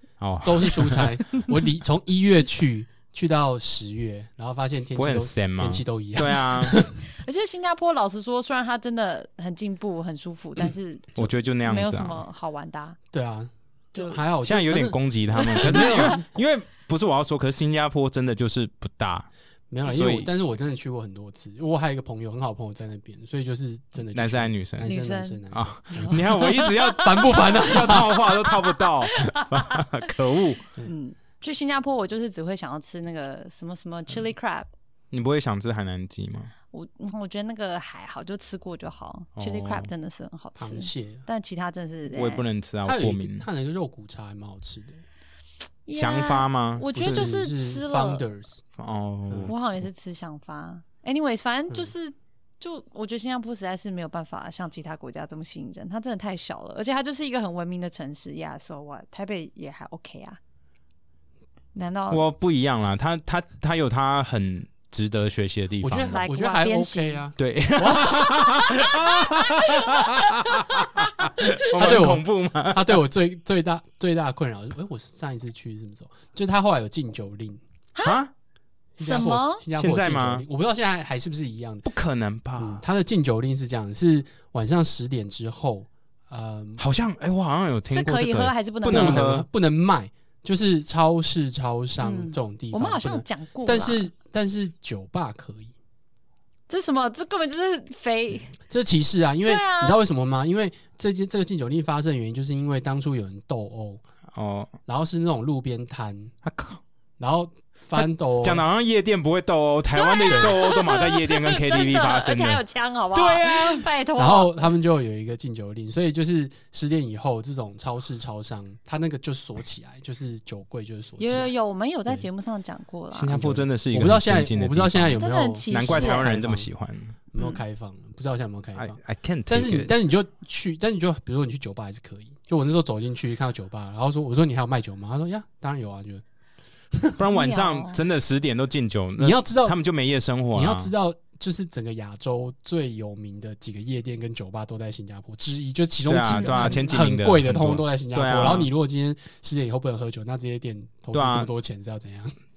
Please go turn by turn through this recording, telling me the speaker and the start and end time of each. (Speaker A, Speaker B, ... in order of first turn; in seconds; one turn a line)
Speaker A: 0.2-1.5
Speaker B: 0.4-7.0
Speaker A: 5.0-6.8
Speaker C: 7.1-13.0
Speaker A: 11.2-12.2
Speaker B: 13.1-16.2
Speaker A: 14.4-19.3
Speaker C: 15.4-16.2
Speaker B: 19.7-28.2
Speaker A: 19.8-20.3
Speaker A: 24.1-24.9
Speaker C: 24.8-25.4
Speaker A: 25.5-30.6
Speaker C: 25.9-29.9
Speaker C: 30.9-34.7
Speaker A: 35.1-36.5
Speaker C: 36.7-42.5
Speaker A: 39.4-39.9
Speaker B: 40.6-41.3
Speaker A: 42.1-43.5
Speaker B: 42.9-45.0
Speaker C: 45.9-48.2
Speaker A: 45.9-47.3
Speaker B: 46.9-48.6
Speaker A: 48.8-49.5
Speaker B: 49.3-49.5
Speaker C: 49.5-60.4
Speaker C: 61.8-62.2
Speaker A: 62.1-66.2
Speaker B: 65.8-68.4
Speaker C: 66.1-67.2
Speaker A: 67.4-73.0
Speaker C: 68.7-71.5
Speaker B: 71.7-77.6
Speaker C: 78.0-78.2
Speaker A: 78.0-78.3
Speaker B: 79.0-81.9
Speaker C: 79.0-79.6
Speaker A: 79.1-80.5
Speaker A: 81.8-82.8
Speaker B: 82.6-86.8
Speaker A: 86.8-89.5
Speaker C: 87.9-89.3
Speaker B: 88.9-95.7
Speaker C: 92.0-94.1
Speaker C: 96.7-98.5
Speaker B: 98.7-104.0
Speaker C: 99.5-100.0
Speaker A: 104.3-104.7
Speaker B: 104.9-106.3
Speaker A: 106.4-106.8
Speaker B: 107.2-108.6
Speaker A: 108.0-112.6
Speaker C: 110.0-114.7
Speaker B: 110.3-110.6
Speaker A: 113.1-113.9
Speaker B: 114.2-121.5
Speaker C: 121.2-123.3
Speaker A: 123.1-127.2
Speaker B: 123.3-126.7
Speaker C: 125.2-126.3
Speaker B: 127.3-136.2
Speaker A: 128.8-129.9
Speaker B: 136.9-137.2
Speaker A: 137.2-140.9
Speaker C: 137.3-138.0
Speaker B: 139.2-139.8
Speaker B: 140.6-152.3
Speaker A: 146.1-148.7
Speaker C: 146.3-146.9
Speaker A: 151.1-151.5